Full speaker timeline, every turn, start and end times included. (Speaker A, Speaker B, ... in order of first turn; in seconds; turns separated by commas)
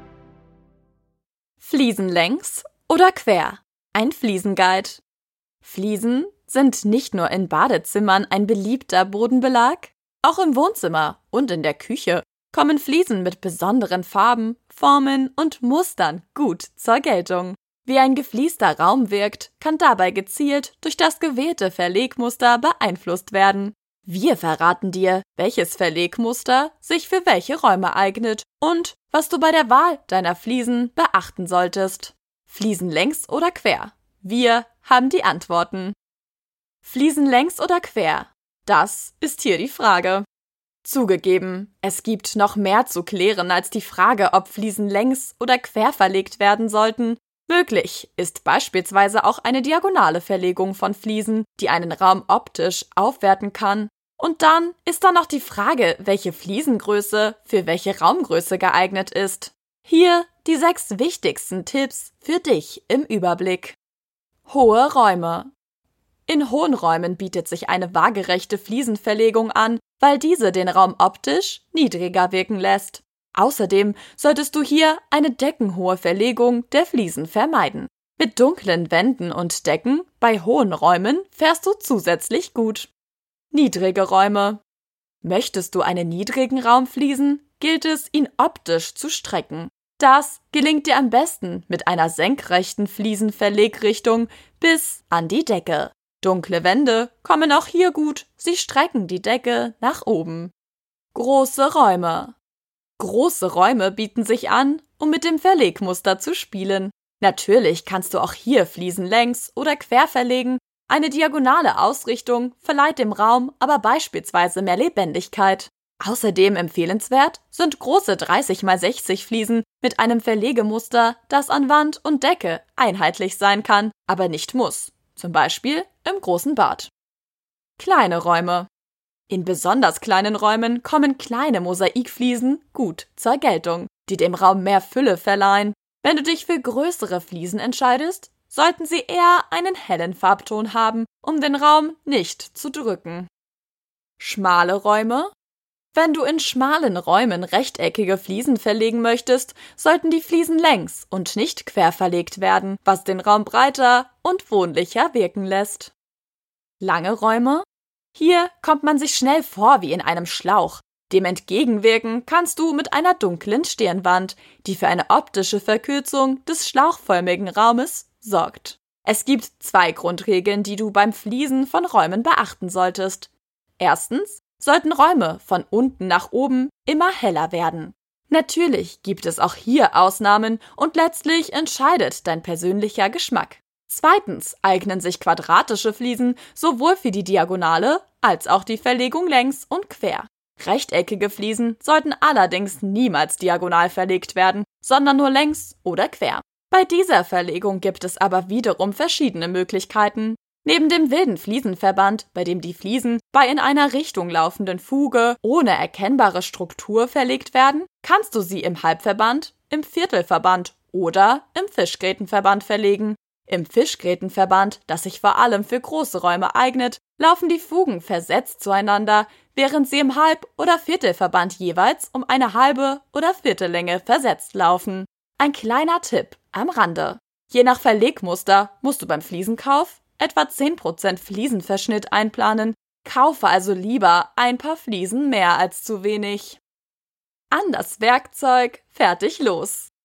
Speaker A: 1.6-5.0, Speaker A: 5.6-36.0, Speaker A: 36.8-40.2, Speaker A: 40.8-63.8, Speaker A: 64.5-65.5, Speaker A: 66.3-82.9, Speaker A: 83.5-84.6, Speaker A: 85.2-100.5, Speaker A: 101.1-102.3, Speaker A: 103.0-126.9, Speaker A: 127.8-128.7, Speaker A: 129.3-143.3, Speaker A: 144.2-145.3, Speaker A: 145.9-155.9, Speaker A: 156.8-236.6, Speaker A: 237.5-239.9